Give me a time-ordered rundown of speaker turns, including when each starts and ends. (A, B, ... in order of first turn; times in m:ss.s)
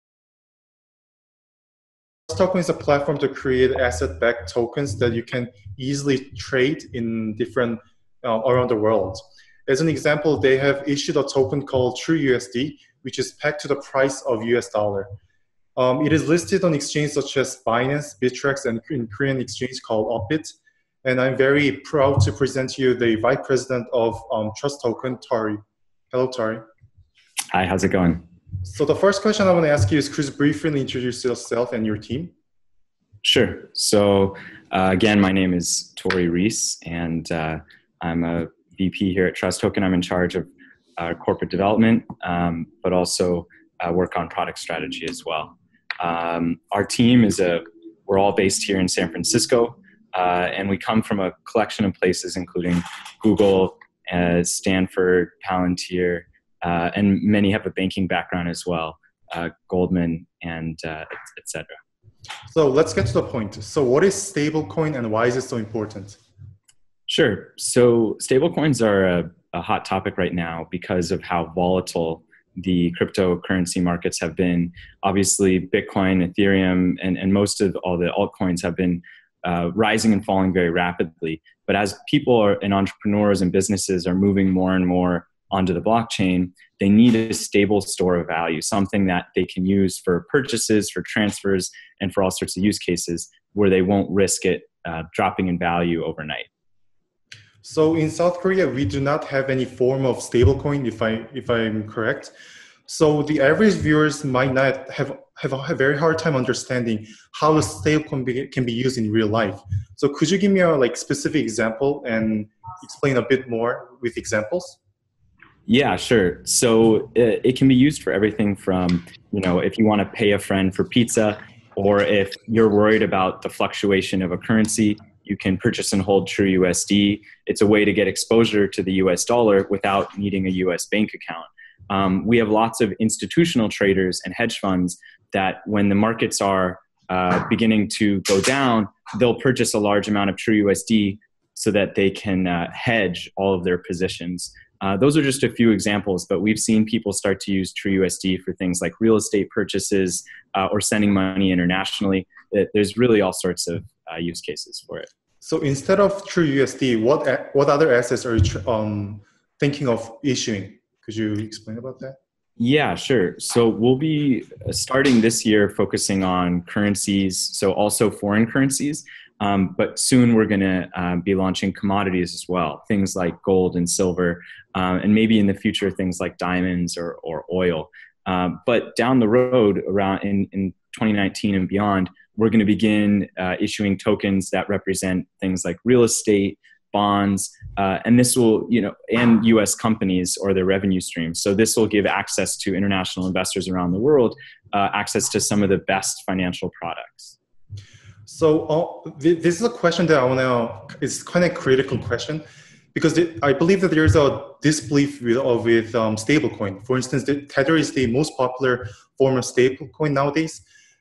0:02.3-0:15.1 A
0:15.8-0:25.6 A
0:26.1-0:26.6 A
0:27.5-0:28.2 B
0:28.6-0:32.3 A
0:33.2-1:01.8 B
1:02.5-1:06.2 A
1:07.1-1:36.5 B
1:37.6-1:42.3 A
1:42.9-1:54.8 A
1:55.7-2:35.1 B
2:35.4-2:42.2 A
2:42.6-3:17.4 B
3:18.3-3:30.6 A